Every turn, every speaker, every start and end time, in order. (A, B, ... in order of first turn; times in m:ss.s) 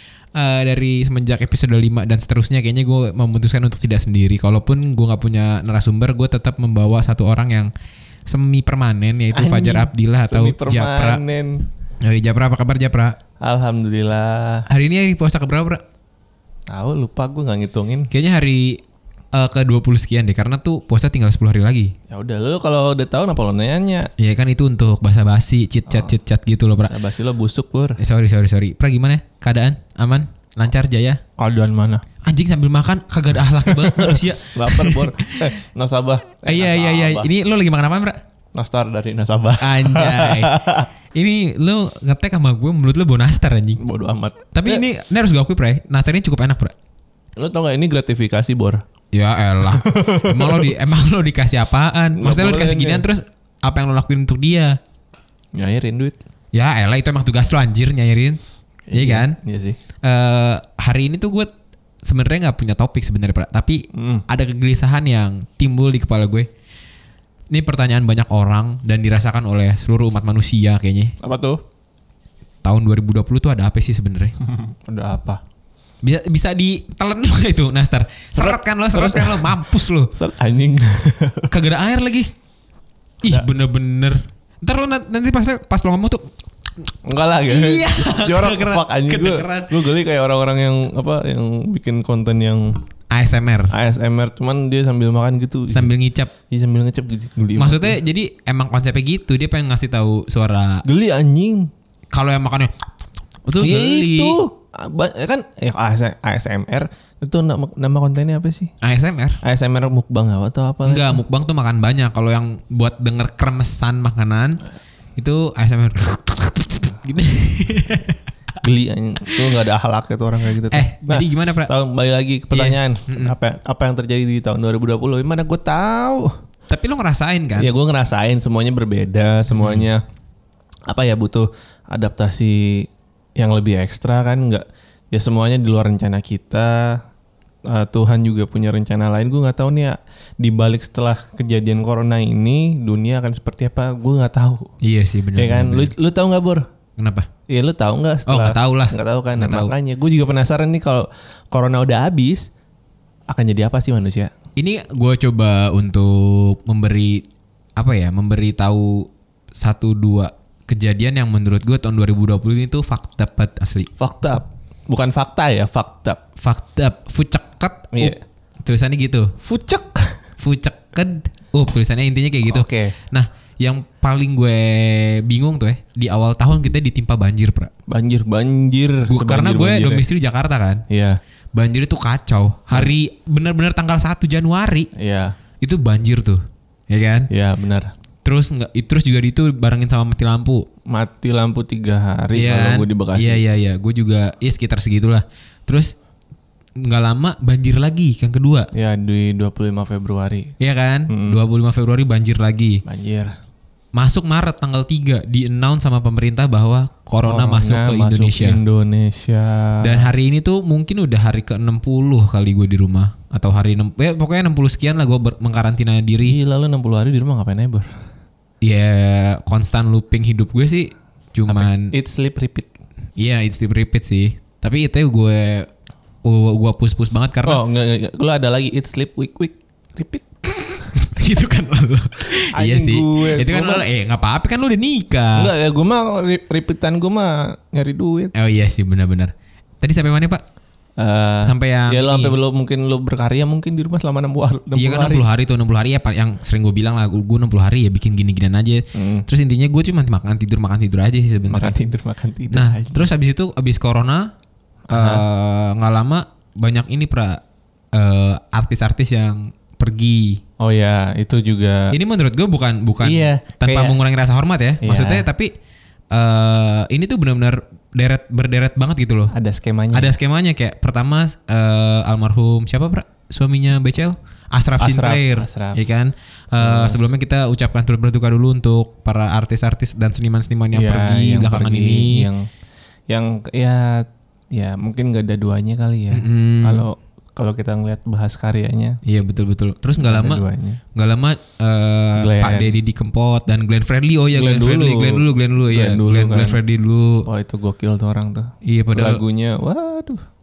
0:00.4-0:07.7 A
0:08.3-0:11.2 A
0:09.3-0:11.7 B
0:12.0-0:13.2 A
0:13.4-0:14.7 B
0:14.7-0:15.8 A
0:16.7-0:18.1 B
0:18.1-0:18.8 A
0:19.3-0:22.0 A
0:22.1-0:24.1 B
0:24.2-0:27.0 A
0:26.8-0:28.0 B
0:28.0-0:31.2 A
0:31.4-0:32.0 B
0:32.2-0:35.5 A
0:33.7-0:37.3 B
0:36.4-0:38.2 A
0:38.6-0:40.9 B
0:39.6-0:40.6 A
0:41.1-0:43.8 A
0:43.8-0:44.8 B
0:44.5-0:46.7 A
0:47.4-0:48.8 B
0:49.1-0:54.8 A
0:49.7-0:50.7 B
0:52.2-0:53.0 B
0:55.5-0:56.2 B
0:56.5-0:58.4 A
0:58.9-0:59.8 B
0:58.9-0:59.4 A
1:00.0-1:01.5 A
1:02.0-1:06.5 A
1:03.9-1:04.2 B
1:07.5-1:11.1 A
1:11.2-1:11.6 B
1:12.6-1:14.3 A
1:14.4-1:15.4 B
1:16.0-1:20.1 A
1:18.4-1:21.5 B
1:21.5-1:22.3 A
1:23.2-1:26.3 A
1:27.0-1:32.8 B
1:27.5-1:29.7 A
1:33.1-1:33.7 A
1:33.7-1:35.9 B
1:35.7-1:36.3 A
1:36.5-1:38.0 B
1:37.6-1:40.8 A
1:40.8-1:41.7 B
1:42.1-1:42.7 A
1:43.4-1:44.4 A
1:43.6-1:48.7 B
1:48.8-1:49.4 A
1:49.4-1:51.2 B
1:50.8-1:54.6 A
1:55.2-1:58.2 A
1:58.6-2:06.4 B
2:00.7-2:01.7 A
2:02.5-2:03.3 A
2:06.7-2:07.7 A
2:07.6-2:10.0 B
2:09.5-2:09.9 A
2:10.9-2:17.0 B
2:17.7-2:24.7 B
2:24.8-2:25.9 A
2:25.4-2:26.7 B
2:27.0-2:27.3 A
2:27.5-2:32.5 B
2:28.3-2:29.7 A
2:33.3-2:34.3 B
2:34.6-2:37.2 A
2:37.8-2:43.9 A
2:44.0-2:46.2 B
2:46.4-2:49.3 A
2:47.9-2:48.2 B
2:49.4-2:50.2 B
2:50.4-2:57.7 A
2:52.5-2:53.0 B
2:57.9-3:00.1 B
2:59.1-3:00.8 A
3:00.9-3:01.2 B
3:01.5-3:04.9 A
3:04.9-3:05.3 B
3:05.6-3:07.3 A
3:07.3-3:07.9 B
3:08.2-3:10.7 A
3:10.9-3:13.4 B
3:12.3-3:15.9 A
3:16.8-3:18.7 A
3:18.7-3:20.5 B
3:20.6-3:22.8 A
3:21.1-3:21.4 B
3:22.8-3:23.4 B
3:23.9-3:28.6 A
3:27.2-3:30.1 B
3:29.8-3:36.4 A
3:36.2-3:37.9 B
3:38.6-3:41.9 A
3:41.5-3:42.7 B
3:43.2-3:45.7 A
3:46.2-3:47.6 A
3:47.4-3:50.9 B
3:51.0-3:55.5 A
3:52.4-3:53.8 B
3:55.3-3:58.3 B
3:58.3-4:00.4 A
4:01.0-4:05.2 B
4:01.4-4:02.3 A
4:04.7-4:11.8 A
4:08.9-4:09.3 B
4:11.5-4:13.0 B
4:12.5-4:14.3 A
4:14.9-4:15.2 B
4:14.9-4:17.4 A
4:17.9-4:20.4 A
4:20.6-4:22.0 B
4:21.9-4:25.5 A
4:23.0-4:24.0 B
4:24.8-4:25.2 B
4:26.1-4:29.3 A
4:29.3-4:30.1 B
4:29.9-4:42.3 A
4:34.8-4:35.8 B
4:36.6-4:37.1 B
4:40.7-4:42.5 B
4:43.1-4:49.0 B
4:46.1-4:46.9 A
4:49.0-4:57.2 A
4:50.0-4:50.8 B
4:52.1-4:52.8 B
4:54.3-4:56.6 B
4:57.2-5:00.2 B
4:58.6-4:59.2 A